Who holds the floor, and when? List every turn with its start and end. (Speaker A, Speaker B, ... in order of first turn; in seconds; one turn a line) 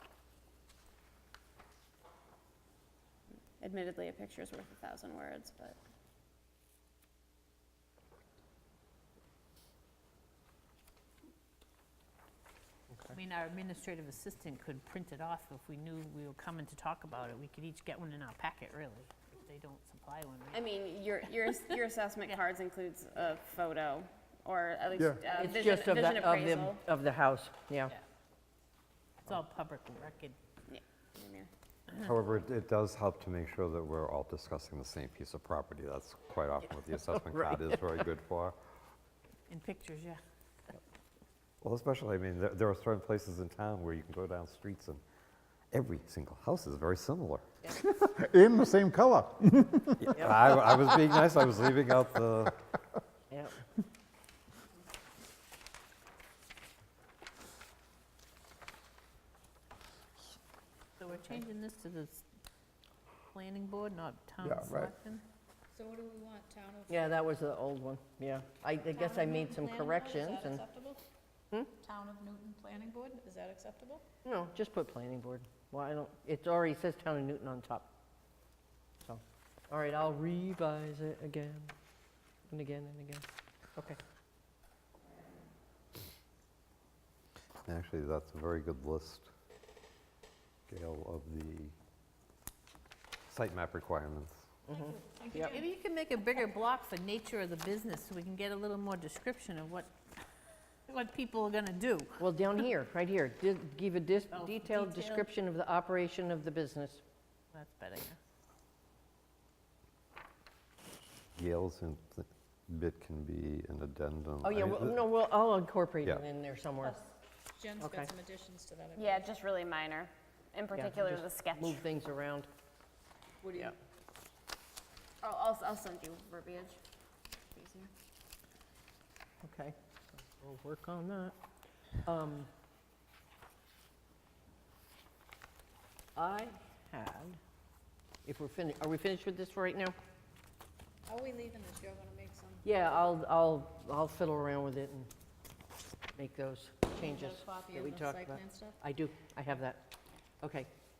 Speaker A: 3.6-5.8
Speaker B: 13.1-20.6
Speaker A: 20.5-26.8
Speaker C: 25.3-27.9
Speaker B: 29.2-30.4
Speaker A: 30.7-31.5
Speaker D: 32.0-38.6
Speaker C: 36.6-38.1
Speaker B: 39.5-40.2
Speaker D: 41.6-45.0
Speaker D: 45.7-47.5
Speaker E: 47.8-50.2
Speaker D: 50.0-52.6
Speaker C: 50.2-50.4
Speaker C: 53.3-53.6
Speaker B: 61.0-62.2
Speaker B: 63.3-65.2
Speaker E: 64.4-64.9
Speaker F: 65.7-67.3
Speaker C: 66.9-70.6
Speaker F: 68.9-71.0
Speaker F: 71.8-74.0
Speaker C: 74.2-77.9
Speaker C: 79.0-81.7
Speaker C: 82.5-83.2
Speaker D: 87.7-89.3
Speaker D: 90.7-91.7
Speaker D: 93.3-94.4
Speaker C: 94.7-95.6
Speaker F: 94.7-95.6
Speaker B: 95.5-99.9
Speaker B: 100.9-102.2
Speaker C: 102.2-107.0
Speaker B: 104.3-105.3
Speaker B: 107.5-108.2
Speaker D: 111.4-115.1
Speaker C: 114.4-117.0
Speaker F: 117.5-119.2
Speaker C: 117.8-118.1
Speaker A: 119.0-121.8
Speaker C: 120.7-122.5
Speaker F: 123.4-123.7
Speaker A: 125.2-126.8
Speaker A: 127.4-127.9
Speaker C: 129.4-131.3
Speaker C: 132.0-132.5
Speaker C: 136.2-137.4
Speaker C: 138.2-139.9
Speaker F: 141.1-142.6
Speaker C: 142.6-145.1
Speaker C: 146.2-150.7
Speaker F: 146.9-148.8